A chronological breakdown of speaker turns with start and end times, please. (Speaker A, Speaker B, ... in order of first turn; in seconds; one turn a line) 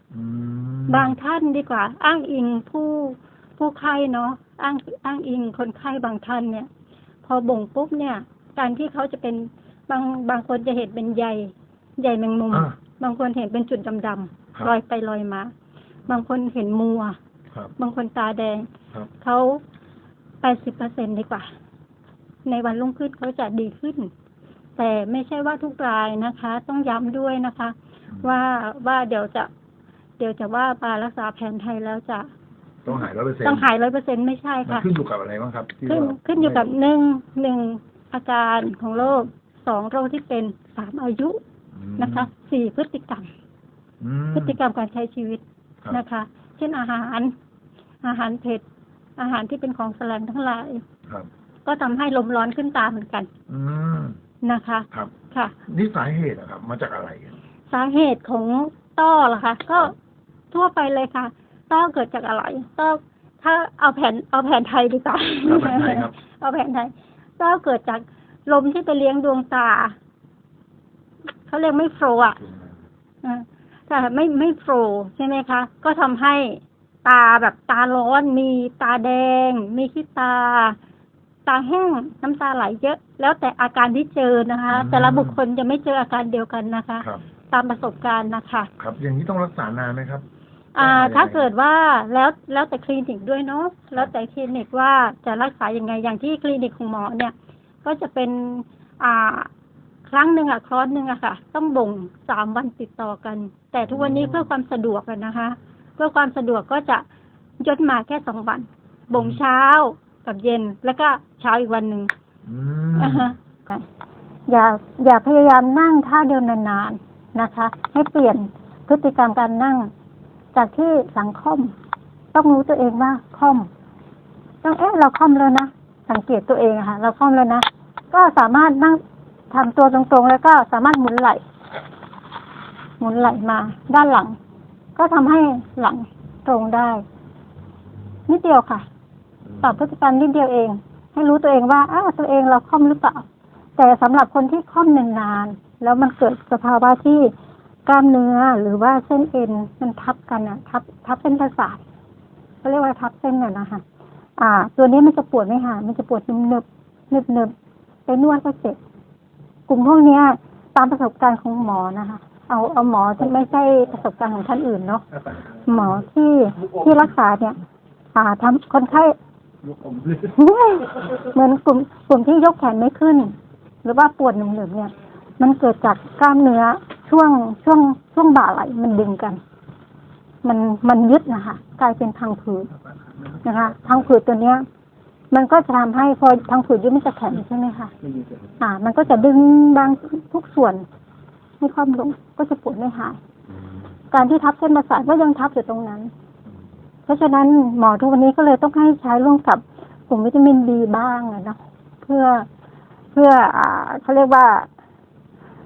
Speaker A: 0.1-1.1
Speaker B: 0.9-6.7
Speaker B: 7.2-15.5
Speaker B: 16.1-17.2
Speaker B: 17.8-19.6
Speaker B: 20.4-21.5
Speaker B: 22.4-24.1
Speaker B: 24.8-29.5
Speaker B: 30.2-32.3
Speaker A: 32.8-33.7
Speaker B: 33.4-34.9
Speaker A: 34.6-36.7
Speaker B: 35.8-41.4
Speaker A: 41.7-42.3
Speaker B: 42.0-43.3
Speaker A: 44.0-44.6
Speaker B: 44.3-47.3
Speaker B: 48.0-48.6
Speaker B: 49.2-50.8
Speaker B: 51.6-53.3
Speaker A: 53.5-54.2
Speaker B: 54.4-55.5
Speaker A: 55.6-57.4
Speaker B: 57.7-59.9
Speaker B: 60.5-69.9
Speaker A: 65.4-66.1
Speaker B: 71.5-72.4
Speaker B: 73.2-80.8
Speaker B: 81.5-88.7
Speaker A: 84.7-85.4
Speaker A: 88.8-90.2
Speaker B: 90.7-99.5
Speaker A: 90.8-91.5
Speaker B: 100.1-107.0
Speaker A: 103.9-104.5
Speaker B: 107.6-112.1
Speaker A: 109.1-109.4
Speaker A: 112.5-113.3
Speaker B: 113.0-113.8
Speaker B: 114.5-119.9
Speaker B: 120.5-121.7
Speaker B: 122.3-123.7
Speaker B: 124.6-129.0
Speaker B: 129.5-131.4
Speaker B: 133.0-134.4
Speaker B: 134.9-137.0
Speaker B: 138.3-138.8
Speaker B: 139.6-143.2
Speaker B: 143.8-147.3
Speaker B: 147.8-151.8
Speaker B: 152.6-153.8
Speaker B: 154.4-157.5
Speaker B: 158.1-158.8
Speaker B: 159.7-167.6
Speaker B: 168.1-169.1
Speaker B: 169.9-179.4
Speaker B: 180.4-182.7
Speaker B: 183.4-184.6
Speaker B: 185.3-187.9
Speaker B: 188.6-190.8
Speaker B: 191.6-193.2
Speaker B: 194.1-196.1
Speaker B: 197.1-202.5
Speaker B: 203.1-204.7